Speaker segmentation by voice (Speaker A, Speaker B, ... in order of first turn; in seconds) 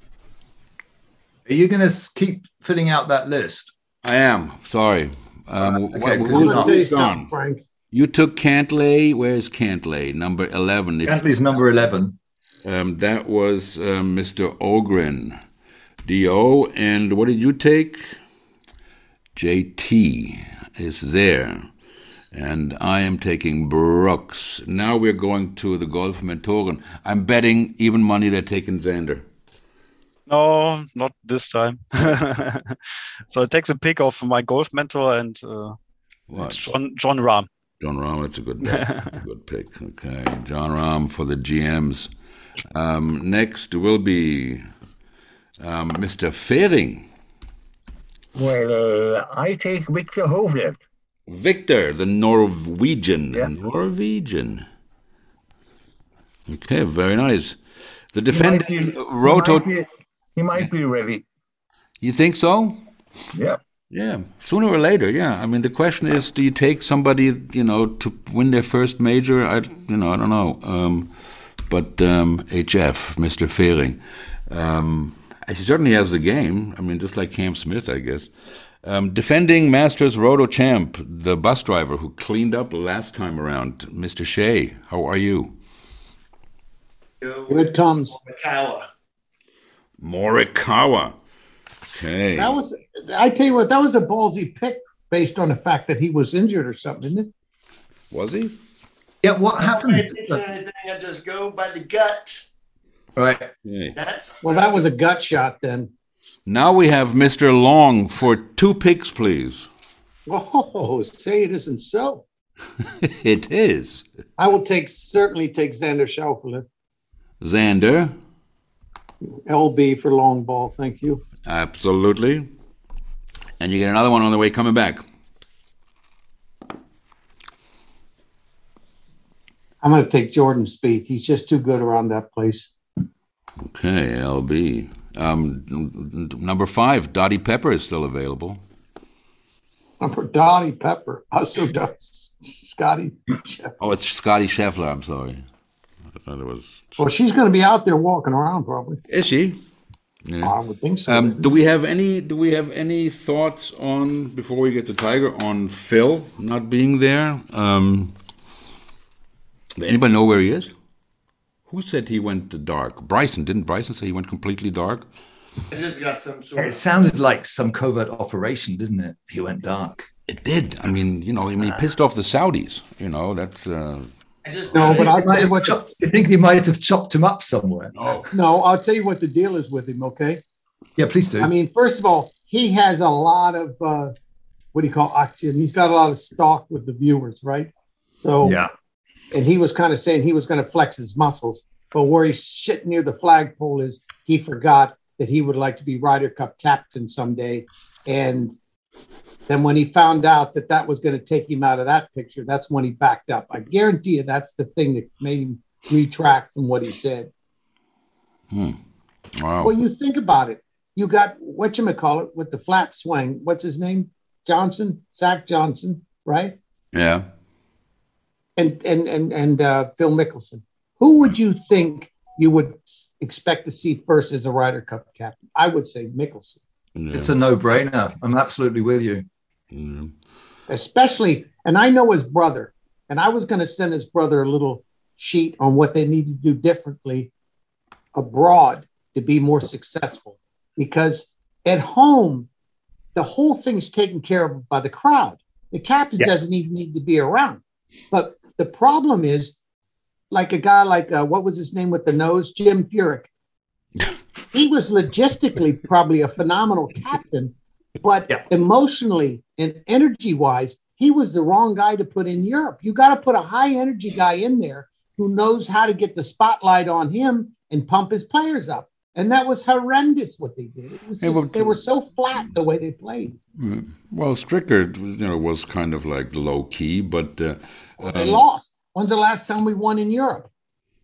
Speaker A: 1.5-3.7, 5.6-6.8, 11.1-12.2, 99.2-100.4, 103.2-103.5, 166.6-170.1, 174.8-177.9, 181.0-181.5, 188.4-188.7, 227.1-229.2
Speaker B: 4.0-7.3, 7.9-11.2, 12.6-15.4, 16.1-18.0, 19.4-21.7, 22.3-29.2, 36.3-36.6, 37.8-42.1, 42.7-44.6, 45.6-47.1, 51.3-54.6, 56.5-57.6, 58.1-59.7, 62.0-62.8, 63.9-71.1, 71.7-78.3, 78.8-85.5, 90.0-91.2, 91.9-92.6, 98.1-98.5, 103.7-103.9, 106.5-109.7, 113.0-114.0, 117.4-118.1, 121.5-122.5, 123.6-125.0, 133.6-138.6, 143.8-145.4, 146.2-147.1, 149.1-149.6, 150.3-150.5, 151.1-158.2, 159.8-160.7, 161.7-165.1, 170.3-174.1, 177.9-178.3, 208.5-208.8, 209.4-209.7, 216.9-217.3, 227.0-227.3, 229.7-230.1, 271.2-271.8, 273.6-278.4
Speaker C: 6.3-7.6, 87.5-88.1, 92.4-97.3, 104.4-105.9, 110.3-112.2, 114.4-116.7, 119.3-121.2, 129.8-132.7, 140.0-143.7, 147.0-149.0, 150.4-151.4, 174.7-175.8, 178.3-180.4, 181.4-184.1, 184.7-187.7, 188.2-188.6, 189.3-198.5, 199.5-207.3, 209.6-216.6, 218.6-226.6, 230.7-237.3, 238.2-242.5, 243.2-249.6, 250.3-253.3, 254.5-273.4, 278.0-280.5
Speaker D: 30.3-32.8, 33.3-35.8, 36.4-37.5, 38.6-39.2
Speaker E: 48.4-50.8, 58.3-61.2, 63.3-63.6
Speaker F: 87.2-88.9, 99.6-102.4, 103.9-104.8, 165.7-167.1, 174.4-175.5